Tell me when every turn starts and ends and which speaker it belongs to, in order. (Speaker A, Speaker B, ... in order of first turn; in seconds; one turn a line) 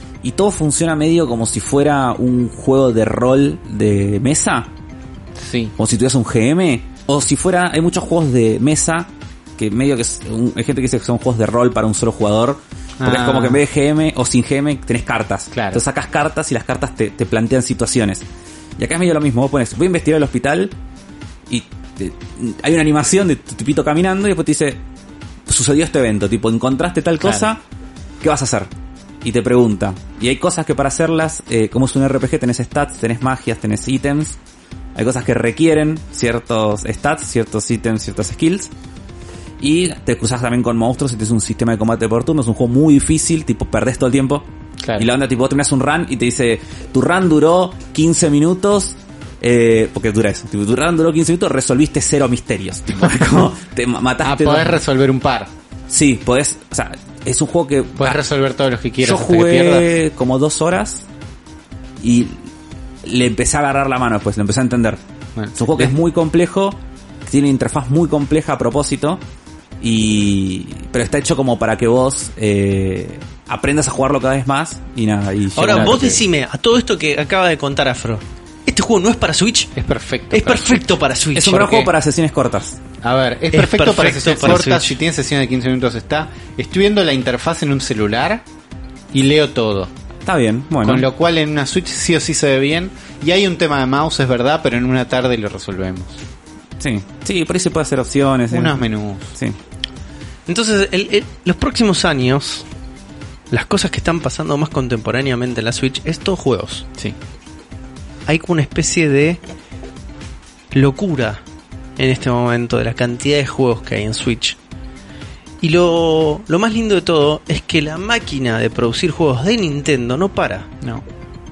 Speaker A: 0.2-4.7
Speaker B: 5.3-5.7
Speaker A: 5.8-18.2
Speaker B: 13.0-13.6
Speaker B: 15.5-15.8
Speaker A: 18.8-20.7
Speaker A: 21.5-24.8
Speaker A: 25.5-27.6
Speaker A: 28.2-28.7
Speaker A: 29.2-34.4
Speaker A: 34.9-38.7
Speaker A: 39.6-54.8
Speaker B: 44.8-45.1
Speaker B: 54.2-55.5
Speaker A: 55.9-58.2
Speaker B: 58.0-59.9
Speaker A: 59.0-61.0
Speaker A: 62.0-62.5
Speaker A: 63.0-65.0
Speaker B: 65.3-65.9
Speaker A: 65.5-69.2
Speaker A: 69.8-76.2
Speaker C: 75.5-79.7
Speaker B: 75.7-76.2
Speaker B: 79.8-80.8
Speaker C: 80.3-81.9
Speaker A: 81.3-82.8
Speaker B: 83.0-88.4
Speaker C: 83.5-85.0
Speaker B: 89.1-89.9
Speaker A: 90.2-91.1
Speaker B: 90.8-96.2
Speaker A: 96.8-98.8
Speaker B: 98.5-99.3
Speaker C: 100.5-102.7
Speaker C: 103.5-106.8
Speaker C: 108.3-109.4
Speaker C: 110.7-111.4
Speaker C: 112.0-114.6
Speaker C: 115.6-120.7